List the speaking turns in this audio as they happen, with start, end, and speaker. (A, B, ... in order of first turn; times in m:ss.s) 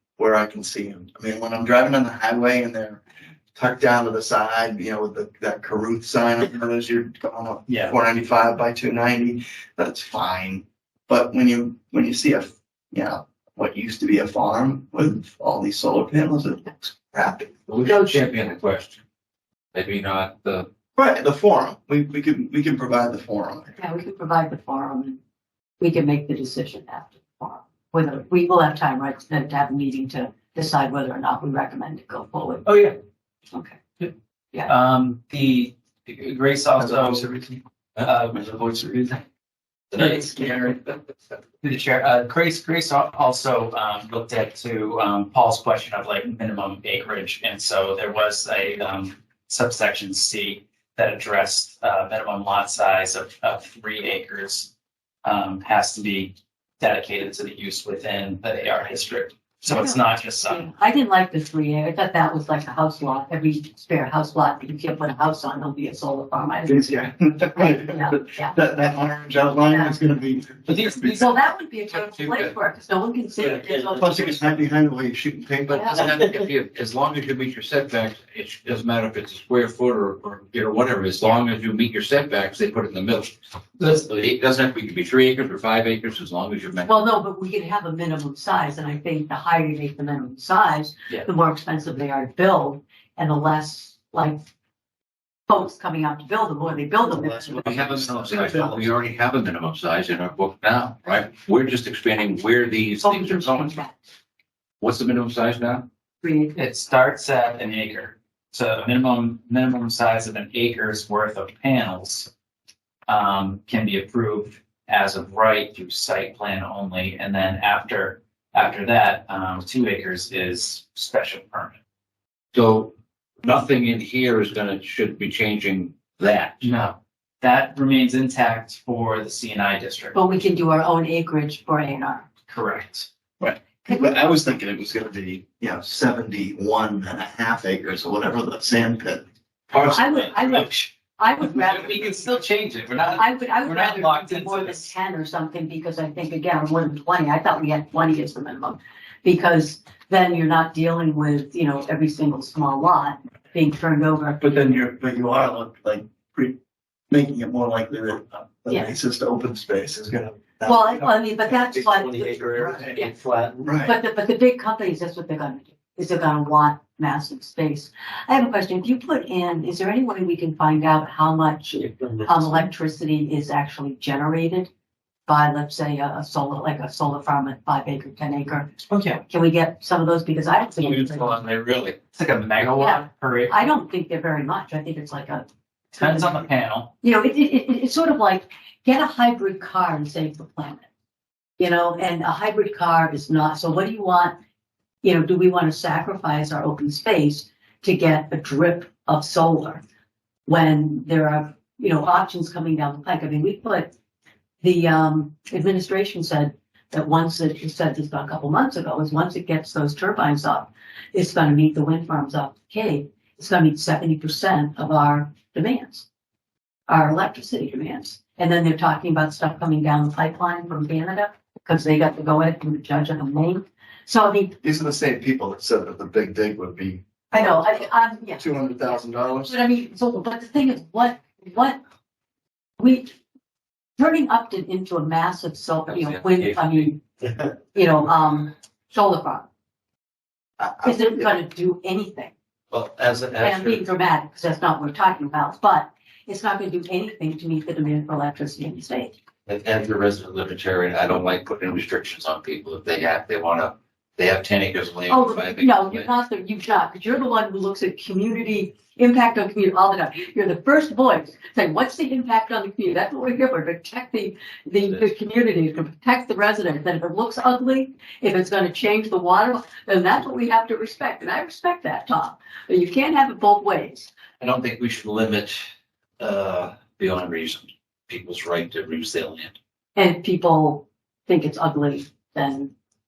0:00.2-0:03.0 A
0:03.6-0:17.5 A
0:07.7-0:08.0 B
0:17.7-0:19.0 C
0:19.7-0:20.7 C
0:21.0-0:23.7 A
0:23.8-0:25.2 D
0:25.8-0:32.7 D
0:32.7-0:33.0 B
0:33.5-0:33.8 D
0:34.7-0:37.3 B
0:36.8-0:37.6 A
0:38.0-0:39.2 B
0:38.4-0:39.0 A
0:39.9-0:40.8 C
0:40.0-0:40.8 B
0:41.6-0:54.7 B
0:55.2-1:00.6 B
0:59.7-1:08.6 D
1:06.7-1:11.3 A
1:09.6-1:10.1 D
1:10.7-1:11.3 B
1:11.1-1:14.2 D
1:12.0-1:12.5 C
1:13.5-1:14.5 E
1:13.9-1:15.8 A
1:15.7-1:26.9 C
1:15.7-1:16.1 D
1:26.9-1:34.5 D
1:35.5-1:37.7 D
1:37.6-1:43.8 C
1:43.0-1:44.0 D
1:44.8-1:45.9 C
1:46.2-1:46.6 D
1:46.6-1:52.3 B
1:53.1-2:01.8 B
2:02.5-2:06.7 C
2:06.6-2:10.2 B
2:10.2-2:12.3 D
2:12.5-2:13.1 B
2:13.4-2:19.8 A
2:13.9-2:14.2 D
2:19.7-2:20.3 C
2:19.8-2:20.0 B
2:19.8-2:22.3 D
2:21.4-2:24.9 B
2:23.0-2:34.8 D
2:34.4-2:36.6 A
2:37.1-2:41.1 A
2:38.7-2:38.9 D
2:40.6-2:43.1 D
2:41.9-2:43.7 E
2:42.6-2:42.9 A
2:43.6-2:43.9 A
2:43.8-2:54.7 D
2:51.8-2:52.4 E
2:55.3-3:01.4 D
2:58.9-2:59.2 B
3:00.8-3:02.0 C
3:02.1-3:03.6 B
3:02.6-3:06.4 D
3:06.0-3:06.9 B
3:07.0-3:10.9 D
3:11.6-3:14.4 D
3:15.0-3:19.8 D
3:20.5-3:23.9 D
3:24.6-3:36.1 D
3:36.9-3:44.6 D
3:44.6-3:47.8 A
3:47.3-3:51.8 D
3:48.4-3:49.5 A
3:52.8-3:53.2 D
3:54.0-3:57.0 D
3:57.6-3:59.5 D
4:00.6-4:01.3 A
4:00.8-4:02.3 D
4:02.7-4:03.8 C
4:03.4-4:09.2 D
4:09.5-4:16.1 C
4:15.1-4:34.1 D
4:34.4-4:35.7 C
4:36.2-4:39.6 C
4:40.0-4:42.7 D